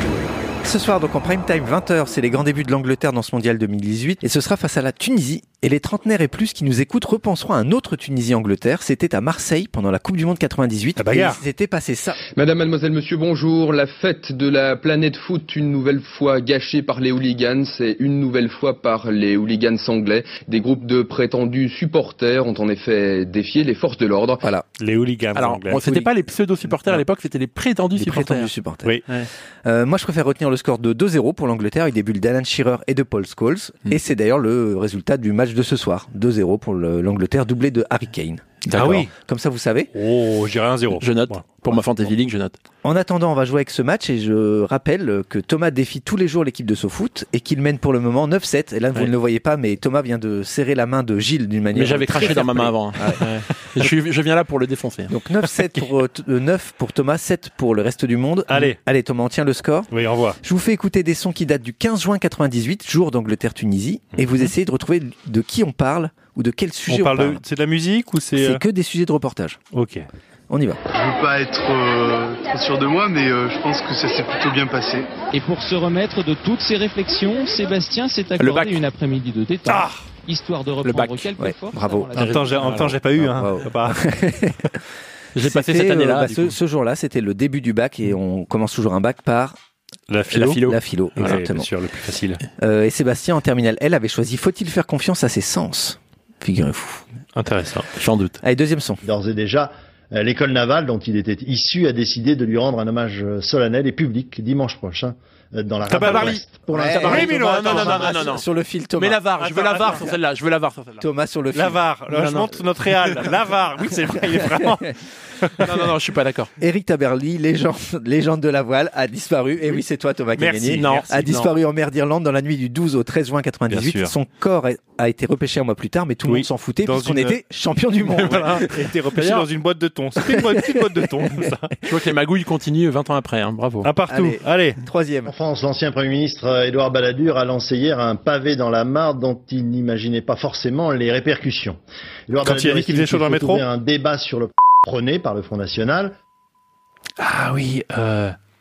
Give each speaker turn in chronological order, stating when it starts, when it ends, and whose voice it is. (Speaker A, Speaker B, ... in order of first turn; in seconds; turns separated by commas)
Speaker A: 0.6-12.2, Speaker B: 11.0-11.4, Speaker C: 12.3-24.4, Speaker B: 24.8-26.1, Speaker D: 25.4-28.5, Speaker A: 27.9-29.0, Speaker A: 29.7-39.9, Speaker D: 38.6-39.1, Speaker B: 38.8-39.1, Speaker B: 39.9-41.4, Speaker D: 40.9-42.6, Speaker A: 42.8-53.2, Speaker D: 51.7-55.1, Speaker A: 55.1-59.9, Speaker B: 58.5-58.8, Speaker B: 59.9-60.4, Speaker A: 60.4-67.4, Speaker B: 66.9-68.6, Speaker A: 68.4-69.6, Speaker B: 69.7-70.0, Speaker A: 70.5-70.8, Speaker E: 71.0-75.1, Speaker F: 75.3-82.4, Speaker D: 78.4-78.8, Speaker B: 79.7-80.0, Speaker D: 80.8-81.4, Speaker A: 81.4-82.2, Speaker B: 82.1-84.3, Speaker D: 82.2-83.0, Speaker A: 83.2-84.8, Speaker D: 85.3-86.6, Speaker A: 85.4-89.6, Speaker B: 90.1-90.6, Speaker D: 90.3-91.4, Speaker A: 90.6-91.7, Speaker B: 91.2-92.4, Speaker A: 92.6-97.0, Speaker B: 97.3-97.9, Speaker D: 98.0-98.4, Speaker A: 98.4-99.0, Speaker G: 99.0-107.5, Speaker B: 105.9-106.4, Speaker D: 105.9-111.0, Speaker A: 106.7-109.2, Speaker B: 107.0-108.2, Speaker B: 109.4-110.1, Speaker A: 111.0-111.9, Speaker B: 111.5-115.6, Speaker D: 112.1-113.5, Speaker A: 114.4-114.7, Speaker D: 115.6-116.5, Speaker A: 116.6-128.9, Speaker B: 120.3-121.4, Speaker D: 120.7-121.5, Speaker B: 123.7-124.1, Speaker B: 126.2-127.4, Speaker B: 128.0-131.7, Speaker D: 128.3-128.6, Speaker D: 129.2-129.5, Speaker A: 130.2-131.5, Speaker D: 131.8-133.9, Speaker B: 133.8-134.8, Speaker A: 134.1-135.3, Speaker G: 135.3-146.1, Speaker B: 142.4-143.7, Speaker D: 147.2-148.3